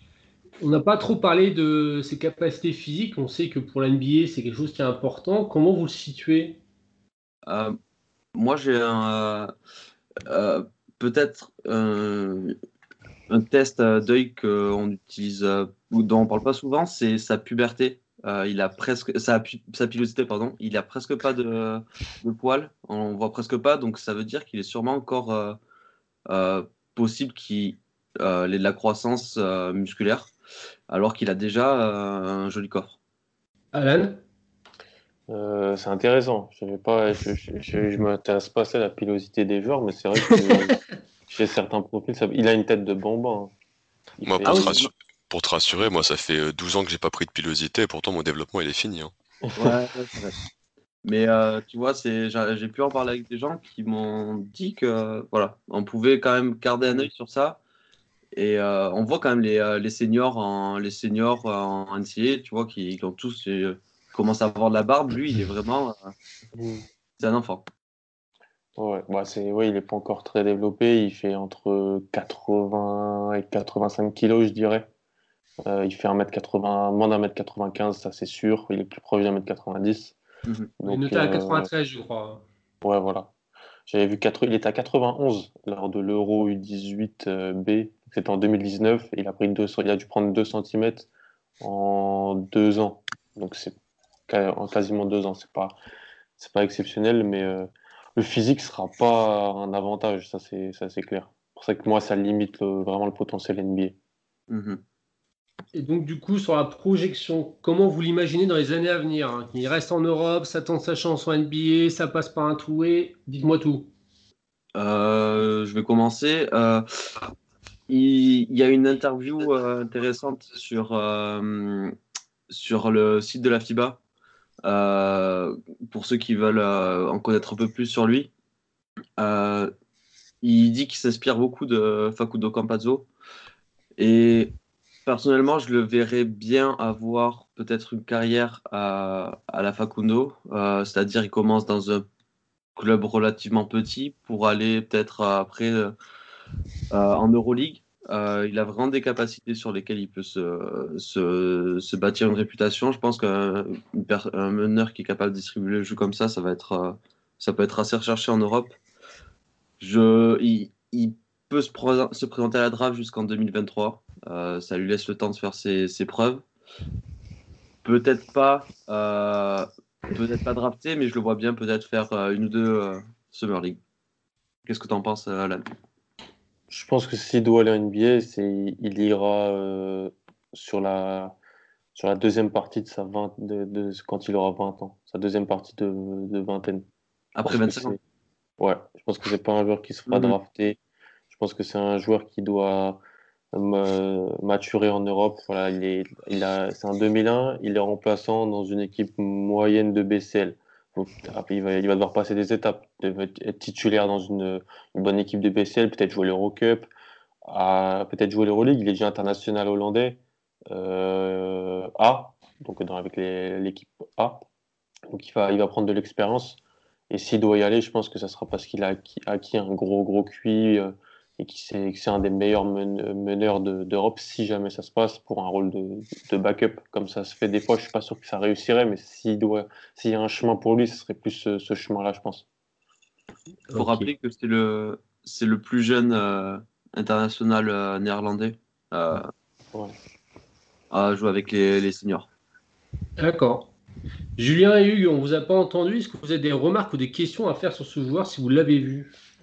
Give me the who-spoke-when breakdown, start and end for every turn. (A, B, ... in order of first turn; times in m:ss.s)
0:00.6-0:06.6 A
0:07.5-0:07.8 B
0:08.3-0:09.5 B
0:10.3-0:12.5 B
0:13.3-0:25.6 B
0:26.3-0:30.3 B
0:30.9-0:33.0 B
0:33.7-0:34.2 A
0:35.3-0:43.5 C
0:40.3-0:40.8 A
0:44.2-0:44.8 C
0:44.2-0:49.1 D
0:44.4-0:44.9 B
0:49.6-0:50.4 B
0:51.0-0:57.6 B
0:58.3-1:06.1 B
1:06.6-1:06.8 C
1:07.2-1:07.6 B
1:08.8-1:14.9 C
1:15.6-1:20.2 C
1:20.8-1:21.7 C
1:20.8-1:22.4 A
1:22.8-1:23.3 C
1:23.9-1:31.1 C
1:31.6-1:33.7 C
1:34.3-1:35.8 C
1:36.4-1:44.0 C
1:44.5-1:44.8 B
1:45.7-1:53.9 A
1:54.7-1:56.8 B
1:57.9-2:01.9 B
2:02.5-2:04.0 B
2:04.6-2:08.3 B
2:09.2-2:09.7 B
2:10.4-2:13.1 B
2:14.0-2:14.5 B
2:15.0-2:22.0 B
2:22.8-2:25.9 B
2:26.9-2:38.8 B
2:39.8-2:46.4 B
2:47.8-2:53.8 B
2:54.6-2:55.6 B
2:56.7-3:01.4 C
3:01.9-3:06.8 C
3:07.3-3:08.0 B
3:07.4-3:08.0 C
3:08.6-3:10.8 C
3:10.1-3:10.3 B
3:11.3-3:13.0 C
3:13.5-3:26.9 C
3:27.4-3:34.4 C
3:35.1-3:36.6 C
3:37.1-3:52.4 C
3:53.7-3:54.1 A
3:53.7-3:59.3 B
4:00.9-4:02.3 B
4:03.2-4:03.7 A
4:04.4-4:09.1 A